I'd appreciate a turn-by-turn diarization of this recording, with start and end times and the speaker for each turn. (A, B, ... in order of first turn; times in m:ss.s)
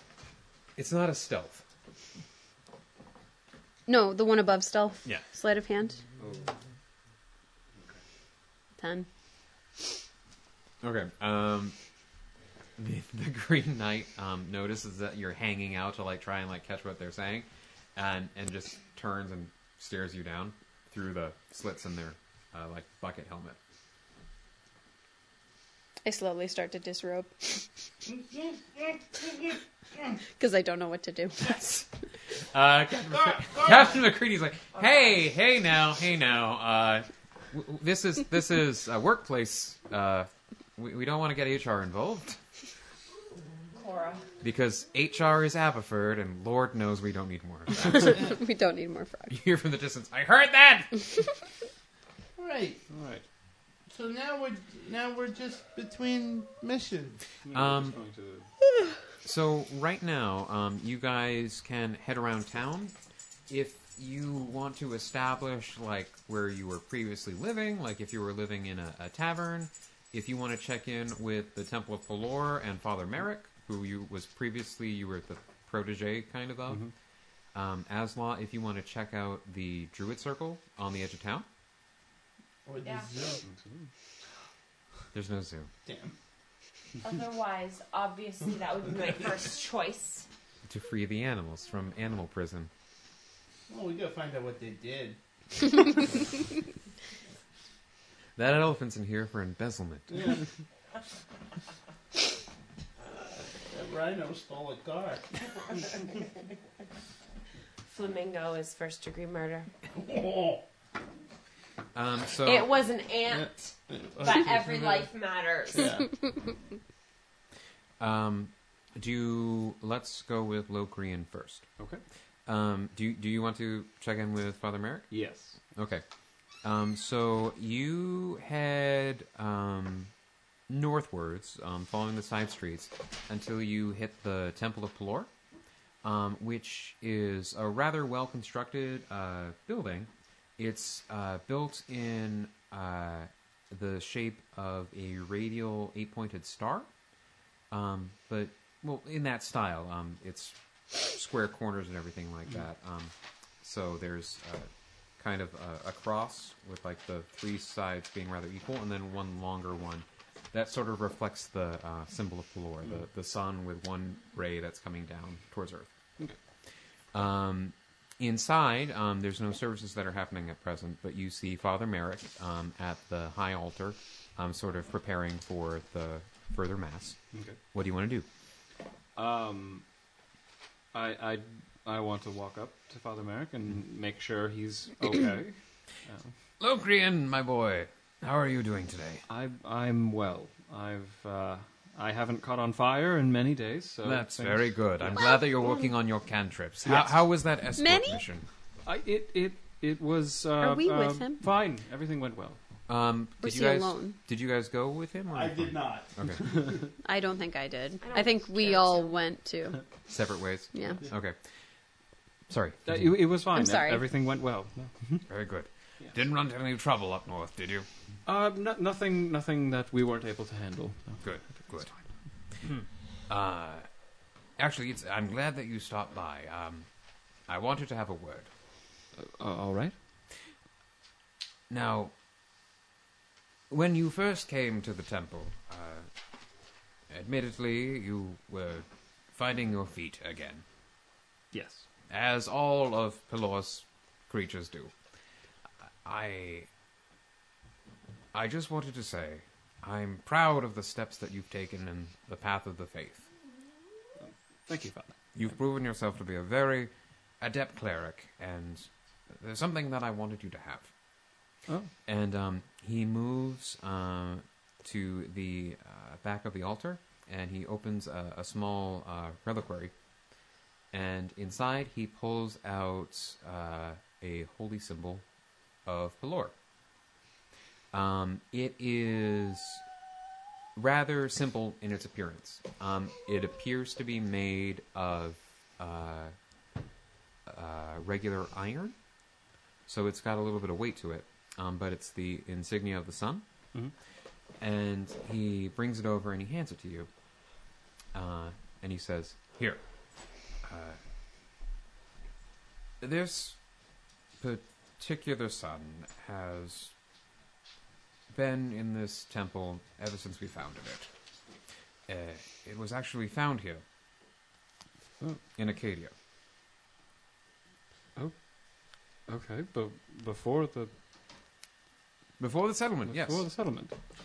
0:00.8-0:01.6 A
0:03.9-0:06.0 B
0:06.2-0:06.5 C
0:08.8-0:09.1 B
0:10.8-0:11.7 A
0:12.8-0:23.6 A
0:26.0-0:27.6 B
0:28.1-0:29.6 D
0:30.4-0:31.7 B
0:31.4-0:31.8 A
0:32.4-0:42.4 A
0:33.1-0:34.0 D
0:43.8-0:44.2 E
0:44.4-0:48.3 A
0:47.9-0:49.4 B
0:49.3-0:51.3 A
0:52.4-0:52.8 D
0:52.9-0:53.2 C
0:53.9-0:57.2 D
0:57.4-0:58.5 C
0:57.5-0:58.0 A
0:59.2-1:02.9 A
1:03.5-1:16.8 A
1:17.5-1:21.4 A
1:22.6-1:23.4 D
1:22.8-1:23.1 E
1:23.4-1:23.9 C
1:25.1-1:25.7 A
1:25.9-1:26.1 D
1:27.0-1:30.3 E
1:30.6-1:32.7 A
1:33.7-1:35.2 D
1:38.4-1:40.3 A
1:40.1-1:40.4 D
1:43.7-1:45.4 D
1:47.9-1:49.7 E
1:49.9-1:50.6 D
1:51.9-1:52.7 A
1:52.4-1:56.0 E
1:53.3-1:55.1 D
1:55.7-1:56.1 D
1:58.0-2:01.7 A
2:02.4-2:05.1 A
2:05.1-2:05.6 C
2:05.7-2:06.0 A
2:06.6-2:10.1 A
2:10.7-2:15.3 A
2:16.0-2:26.9 A
2:27.7-2:46.0 A
2:47.1-2:57.2 A
2:57.3-2:57.6 C
2:57.7-2:58.3 A
2:59.2-2:59.8 C
3:00.9-3:06.3 C
3:06.6-3:09.2 A
3:09.3-3:15.3 C
3:14.0-3:18.4 A
3:16.8-3:17.2 C
3:17.8-3:18.2 B
3:18.8-3:22.6 C
3:20.6-3:21.4 B
3:22.9-3:26.4 A
3:23.4-3:24.2 B
3:25.3-3:26.8 D
3:27.0-3:29.8 B
3:28.0-3:29.2 E
3:30.1-3:31.4 A
3:30.7-3:31.0 B
3:32.5-3:32.8 A
3:32.8-3:35.3 C
3:33.5-3:34.1 B
3:35.3-3:37.9 A
3:38.3-3:42.0 C
3:41.2-3:41.9 A
3:42.6-3:42.9 C
3:43.3-3:43.9 A
3:44.6-3:46.9 A
3:47.5-3:48.5 A
3:49.2-3:50.0 C
3:51.7-3:52.1 A
3:53.7-3:56.1 A
3:57.1-4:00.6 A
4:01.5-4:01.8 C
4:02.1-4:04.9 A
4:06.0-4:06.7 A
4:08.3-4:13.3 A
4:14.2-4:15.1 C
4:15.4-4:20.9 A
4:22.1-4:29.9 A
4:30.9-4:35.2 A
4:35.9-4:36.5 A
4:37.9-4:39.8 A
4:40.8-4:46.4 A
4:47.4-4:48.9 A
4:49.9-4:53.4 A
4:54.6-4:57.1 A
4:58.1-4:59.8 A
5:00.6-5:01.0 A
5:03.0-5:03.6 A
5:04.4-5:06.9 A
5:08.3-5:11.1 A
5:12.1-5:13.8 A
5:15.6-5:16.1 A
5:18.2-5:20.9 C
5:22.4-5:23.5 A
5:23.1-5:24.0 C